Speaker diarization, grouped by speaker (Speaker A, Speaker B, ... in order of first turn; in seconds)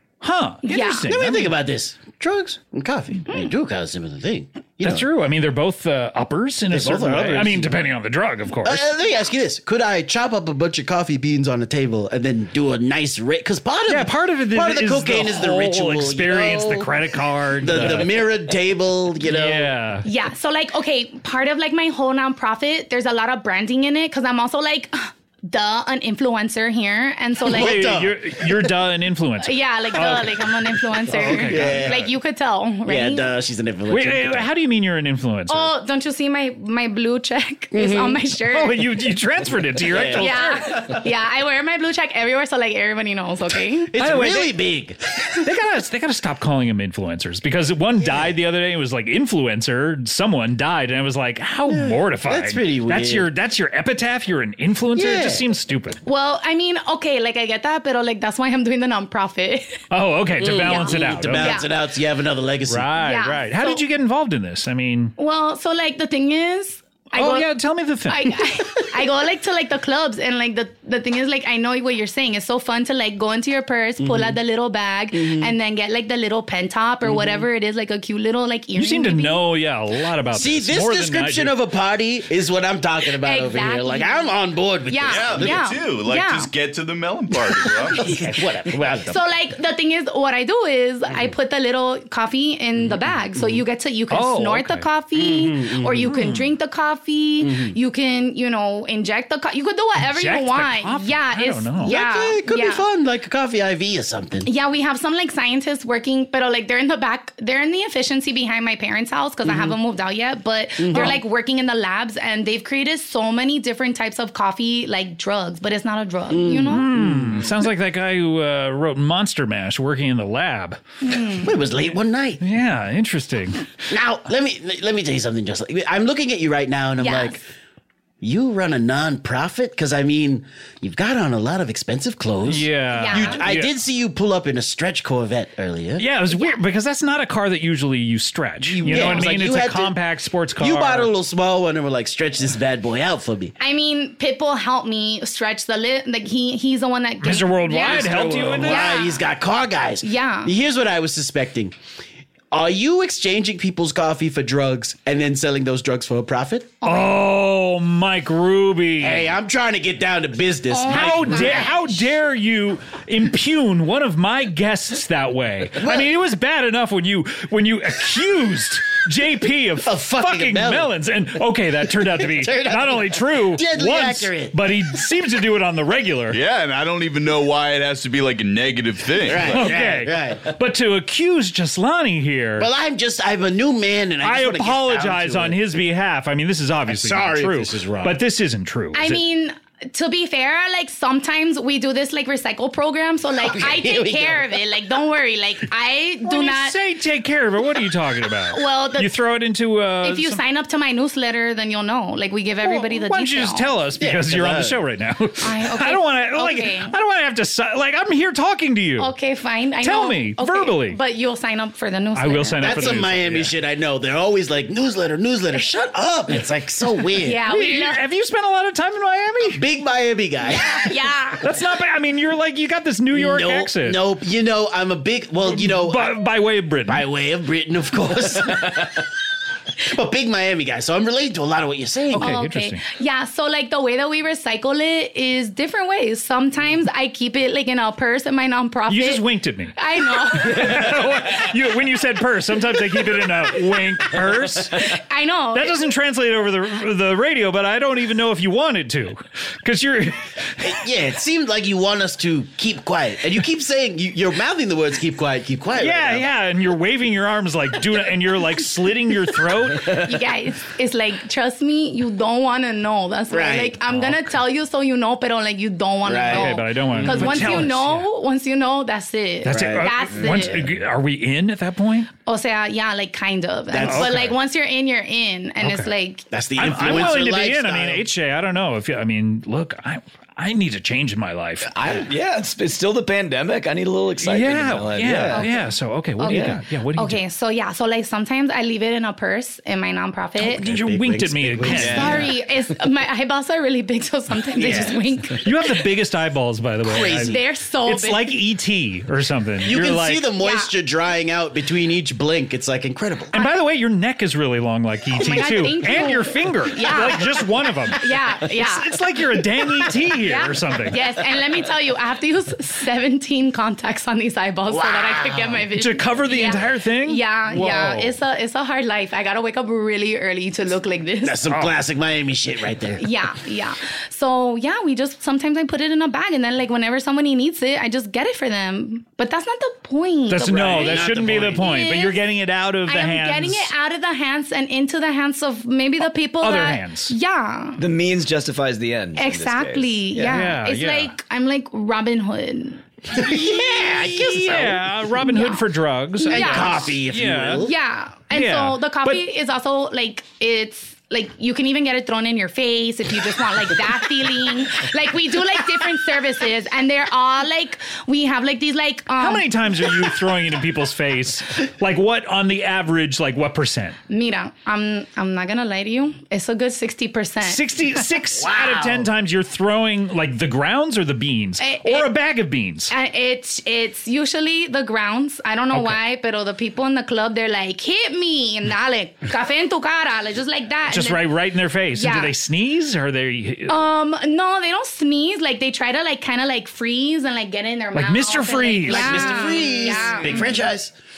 Speaker A: 0.2-1.5, 4.8-8.8, 13.9-18.1, 19.3-20.1, 27.5-30.5, 31.1-32.1, 33.9-35.7, 38.5-40.7, 44.0-44.5, 45.4-56.0, 59.9-61.6, 62.7-65.1, 67.2-68.4, 78.8-81.5, 94.1-94.9, 96.1-96.5, 100.1-102.0, 116.7-120.8, 122.4-123.7, 132.5-133.7, 136.0-141.1, 147.2-148.9, 156.8-159.3, 160.9-176.4, 179.5-182.7, 184.2-189.2, 196.2-200.4, 202.6-209.1, 209.8-211.0, 212.2-213.5, 217.5-219.6, 221.4-224.0, 225.5-227.0, 232.1-232.8, 238.9-239.8, 240.3-244.9, 245.5-250.7, 255.8-260.0, 263.9-264.3, 266.3-268.1, 269.4-272.1, 273.8-274.4, 275.6-275.9, 276.6-282.1, 284.2-287.2, 290.4-292.3, 295.4-300.2, 303.3-311.0, 315.7-318.1, 330.3-333.7, 336.4-337.1, 340.3-341.1, 343.8-347.7, 348.3-349.2, 359.2-364.0, 367.4-372.9, 375.7-376.0, 380.9-383.8, 387.9-389.7
Speaker B: 0.6-1.1, 20.0-27.9, 29.4-33.3, 35.5-38.9, 40.2-43.9, 56.0-59.8, 60.6-61.7, 63.0-63.8, 65.2-67.5, 68.1-79.4, 83.0-84.3, 84.9-86.5, 88.0-88.3, 89.1-102.8, 104.5-116.9, 121.0-121.5, 127.0-127.4, 132.9-133.4, 136.3-136.6, 138.9-139.2, 143.6-149.2, 150.0-150.5, 156.8-157.2, 160.7-162.0, 188.9-196.8, 198.5-199.2, 200.0-203.7, 205.4-206.9, 209.0-212.9, 217.2-218.0, 220.5-221.4, 232.1-240.9, 244.8-245.8, 259.9-270.7, 272.2-276.3, 285.3-290.6, 291.8-295.4, 297.2-298.4, 300.4-300.7, 305.1-308.9, 310.2-321.4, 323.0-332.2, 332.9-337.8, 339.2-342.9, 345.2-345.7, 346.2-346.9, 347.6-359.5, 364.1-367.7, 371.6-372.1, 372.9-381.4, 381.9-382.4, 383.7-390.6
Speaker C: 0.9-5.1, 6.7-7.8, 8.7-16.9, 17.6-19.7, 27.4-28.4, 31.2-32.1, 32.9-34.5, 37.7-38.2, 39.9-40.6, 43.9-45.4, 48.0-48.3, 51.7-53.3, 55.0-55.4, 60.4-62.9, 74.0-74.4, 75.1-75.5, 77.0-77.5, 80.3-85.6, 88.0-89.2, 92.9-93.6, 95.2-96.1, 97.4-97.8, 101.8-104.5, 109.5-109.8, 110.8-111.2, 116.3-117.5, 121.4-122.4, 123.9-127.4, 128.2-136.0, 138.8-139.9, 140.6-143.6, 147.8-151.7, 152.5-156.8, 159.0-161.7, 165.8-166.1, 169.8-170.9, 172.2-174.7, 179.3-180.4, 182.6-185.6, 186.9-188.2, 193.4-194.6, 204.0-204.8, 212.6-217.4, 219.6-221.0, 223.1-226.1, 226.9-229.0, 229.9-232.4, 250.6-256.2, 263.3-263.8, 266.1-267.7, 269.5-270.6, 273.7-274.3, 276.3-278.1, 290.4-292.3, 294.6-295.0, 296.9-297.4, 299.6-303.3, 314.7-315.6, 321.2-323.1, 330.5-331.7, 343.1-344.8, 346.3-347.7, 368.4-369.1, 388.9-390.9
Speaker D: 85.1-88.0, 176.3-179.7
Speaker E: 281.7-285.5, 291.8-292.2, 337.8-340.4